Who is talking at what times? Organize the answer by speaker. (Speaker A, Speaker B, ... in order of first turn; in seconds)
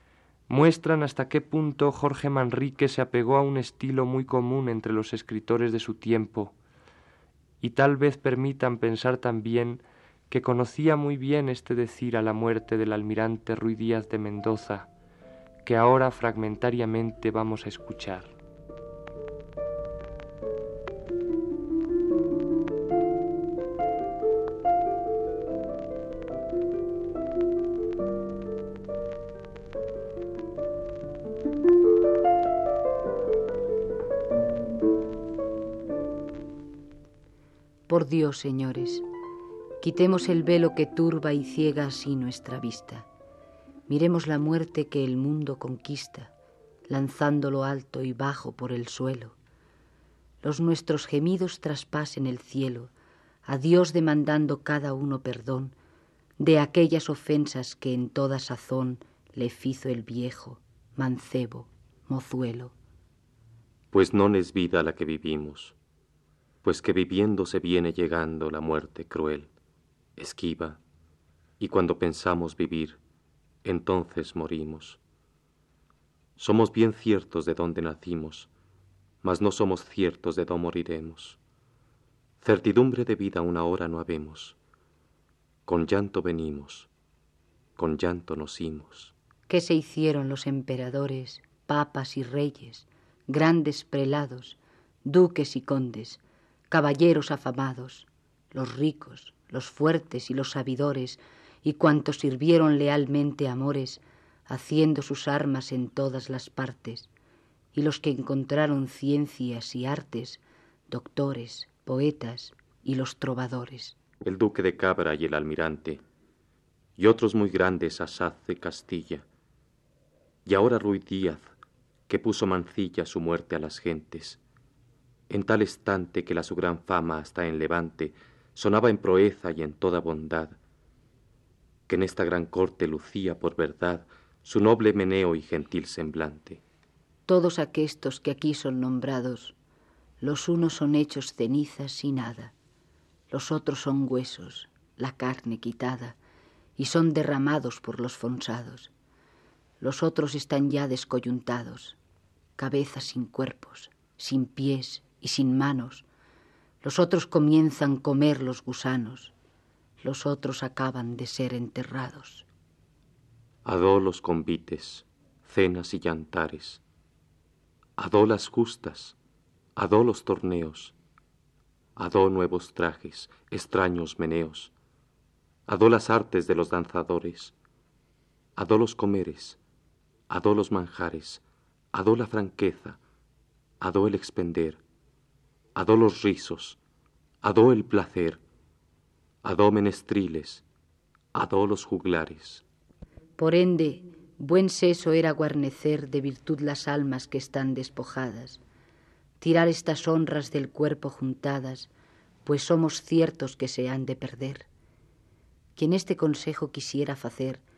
Speaker A: 0.5-6.5, 7.6-14.9, 15.6-18.3
Speaker B: 37.9-39.0, 39.8-43.1, 43.9-46.3, 46.9-49.4, 50.4-52.9, 53.5-55.7, 56.4-62.7, 89.5-107.1, 107.7-114.0, 137.3-139.6, 140.2-142.5, 143.3-146.2, 146.8-148.9, 149.8-152.0, 152.6-156.1, 156.8-159.3, 160.0-162.4, 193.4-198.6, 199.4-201.9, 202.4-204.7, 205.8-207.6
Speaker C: 63.9-65.8, 66.6-69.5, 70.2-70.8, 71.6-73.0, 73.6-75.0, 76.4-78.5, 79.2-81.4, 82.4-84.5, 85.7-86.9, 87.8-89.1, 114.2-116.0, 117.0-119.2, 120.5-121.5, 122.1-124.4, 125.3-130.6, 131.9-136.6, 163.6-166.8, 168.0-169.2, 169.8-170.9, 171.9-174.7, 175.7-177.5, 178.6-179.6, 180.3-181.4, 181.9-183.0, 183.8-184.8, 185.8-186.8, 187.4-188.4, 189.4-190.6, 191.3-192.6